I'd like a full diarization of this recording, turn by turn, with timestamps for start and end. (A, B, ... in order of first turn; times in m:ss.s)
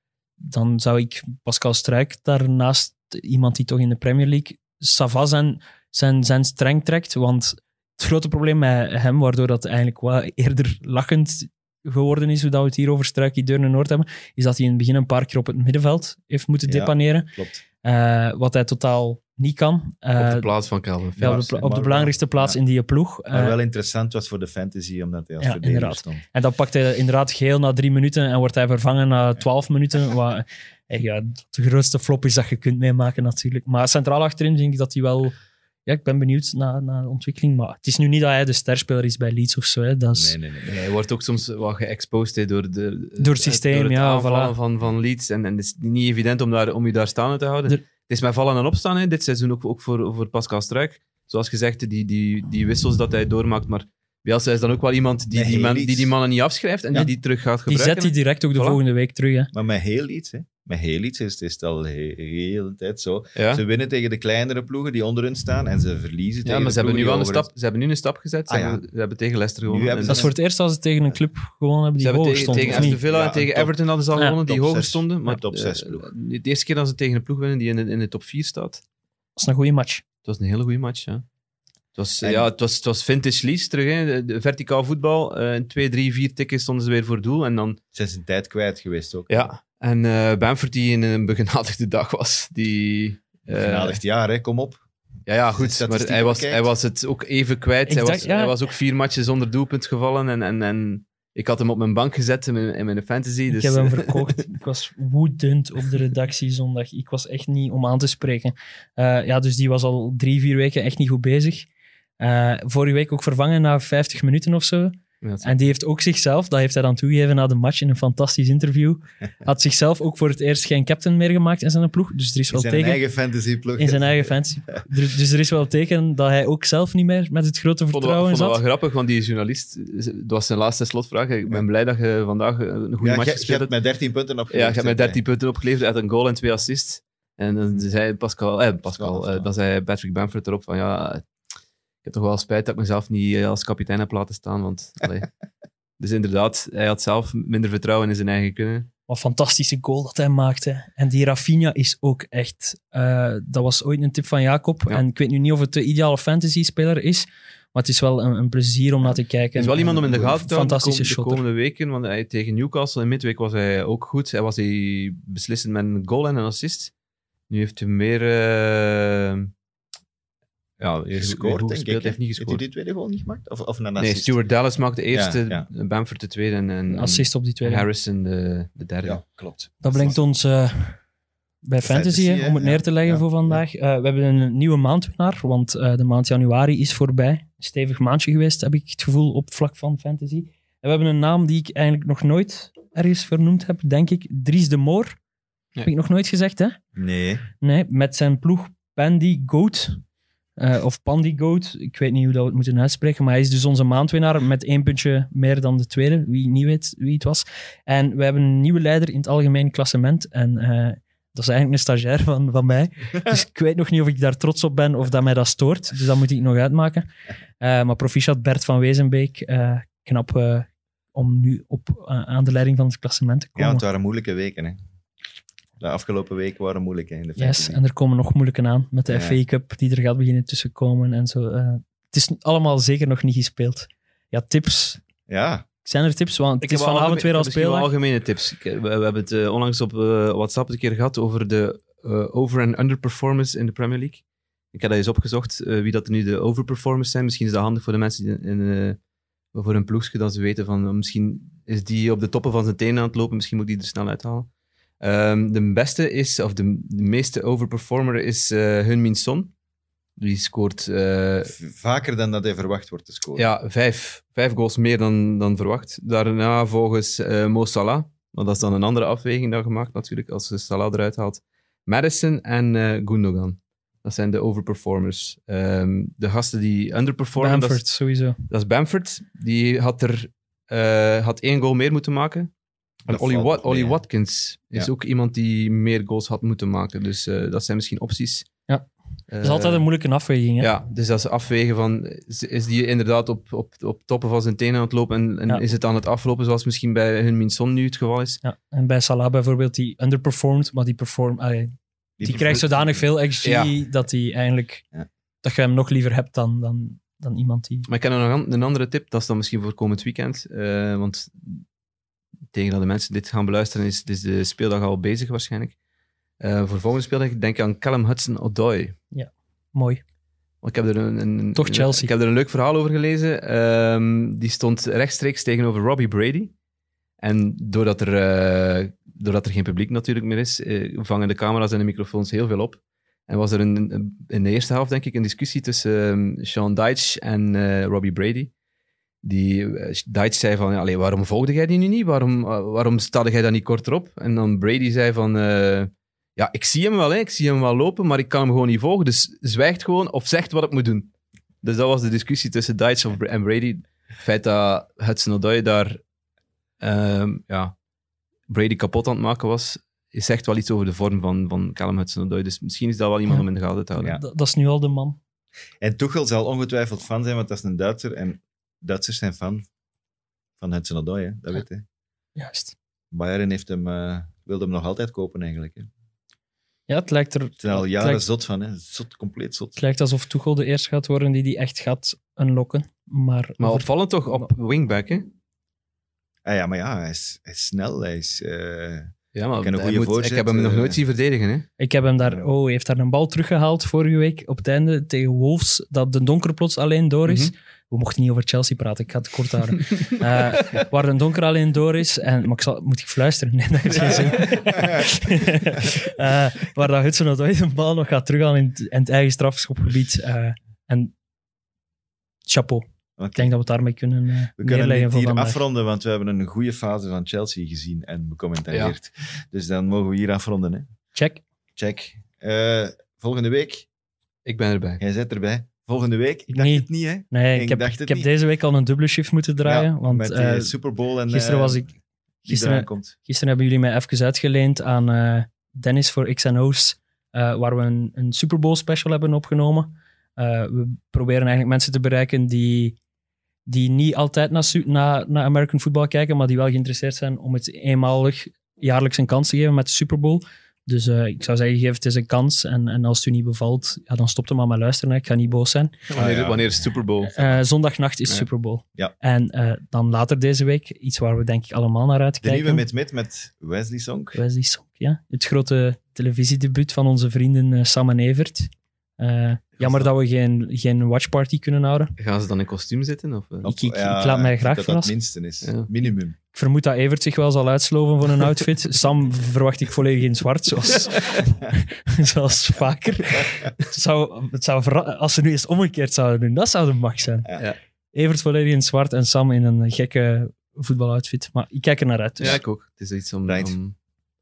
0:00.4-0:17.3 A
0:16.7-0:17.6 B
0:17.8-0:20.5 A
0:20.2-0:21.4 C
0:21.2-0:22.6 B
0:21.2-0:23.6 A
0:23.3-0:26.2 B
0:25.4-0:35.4 A
0:35.9-0:40.4 A
0:40.1-0:40.8 B
0:40.7-0:58.8 C
0:43.2-0:44.5 A
0:55.3-0:56.1 B
0:57.7-0:59.5 A
0:59.5-1:07.5 B
1:03.4-1:03.6 C
1:06.4-1:10.3 C
1:08.5-1:08.8 B
1:09.7-1:10.3 B
1:10.1-1:13.0 A
1:12.0-1:18.8 C
1:12.4-1:16.1 B
1:19.4-1:20.0 A
1:20.2-1:21.2 C
1:22.0-1:27.8 C
1:22.2-1:22.5 B
1:27.9-1:29.5 B
1:29.3-1:34.0 C
1:33.5-1:34.8 B
1:35.3-1:44.4 C
1:35.5-1:36.7 B
1:37.9-1:38.6 A
1:43.5-1:51.7 A
1:52.2-2:03.0 A
1:55.2-1:55.5 C
2:02.5-2:04.3 B
2:03.8-2:08.6 A
2:07.9-2:13.7 C
2:13.0-2:15.2 B
2:14.5-2:21.3 C
2:18.9-2:19.5 B
2:22.0-2:25.3 C
2:26.0-2:28.9 C
2:29.1-2:41.4 A
2:39.6-2:46.9 C
2:39.8-2:40.4 B
2:47.5-2:49.5 C
2:50.8-2:52.6 C
2:51.2-2:54.4 B
2:54.0-2:59.2 C
2:55.1-2:55.7 B
2:56.9-2:57.9 A
2:59.0-3:00.2 B
2:59.8-3:01.0 A
3:01.6-3:15.2 A
3:01.8-3:03.6 B
3:15.8-3:16.8 A
3:17.0-3:17.4 B
3:17.6-3:20.0 A
3:20.6-3:37.1 A
3:37.6-3:43.8 A
3:43.6-3:44.8 B
3:45.8-3:47.8 B
3:47.4-3:55.0 A
3:49.1-3:49.4 B
3:55.3-3:55.6 B
3:55.8-3:57.9 A
3:56.6-4:09.0 C
4:09.5-4:14.5 C
4:15.0-4:19.5 C
4:20.2-4:21.5 C
4:21.4-4:23.5 B
4:23.4-4:37.8 C
4:37.4-4:38.4 A
4:38.5-4:42.5 C
4:43.1-4:44.0 B
4:43.1-4:48.5 C
4:49.3-4:49.9 C
4:49.4-4:50.7 A
4:50.6-4:58.4 C
4:58.4-5:04.8 A
5:02.2-5:03.1 B
5:03.4-5:03.7 C
5:05.4-5:07.9 A
5:07.9-5:11.6 C
5:12.5-5:15.8 C
5:16.4-5:19.0 C
5:19.1-5:20.0 A
5:20.6-5:26.5 C
5:21.6-5:22.1 A
5:27.2-5:38.5 C
5:39.2-5:51.1 C
5:51.6-5:56.0 C
5:56.8-5:57.7 C
5:58.5-6:04.2 C
6:04.2-6:05.2 A
6:05.8-6:09.7 B
6:10.6-6:11.8 B
6:12.4-6:12.8 A
6:13.1-6:15.9 B
6:16.9-6:18.2 A
6:17.6-6:19.8 B
6:19.8-6:24.5 A
6:23.6-6:25.3 C
6:26.4-6:31.0 B
6:29.4-6:31.7 C
6:31.8-6:51.1 A
6:37.3-6:37.5 C
6:44.0-6:44.7 C
6:44.7-6:45.0 B
6:52.5-6:55.6 A
6:53.2-6:53.6 B
6:54.6-7:00.9 B
7:01.1-7:01.4 A
7:01.8-7:03.9 B
7:04.4-7:05.0 C
7:05.0-7:08.3 B
7:06.5-7:10.7 A
7:09.6-7:11.9 B
7:11.3-7:11.9 A
7:12.4-7:13.2 B
7:12.5-7:23.0 A
7:23.7-7:35.9 A
7:36.1-7:37.5 C
7:36.2-7:36.9 B
7:37.3-7:42.8 A
7:42.4-7:44.4 B
7:44.4-7:52.1 A
7:52.2-7:53.7 C
7:53.6-7:55.1 A
7:53.6-7:56.4 B
7:55.6-7:55.9 C
7:56.5-8:07.5 A
8:08.1-8:12.6 A
8:12.4-8:14.0 C
8:13.5-8:13.8 B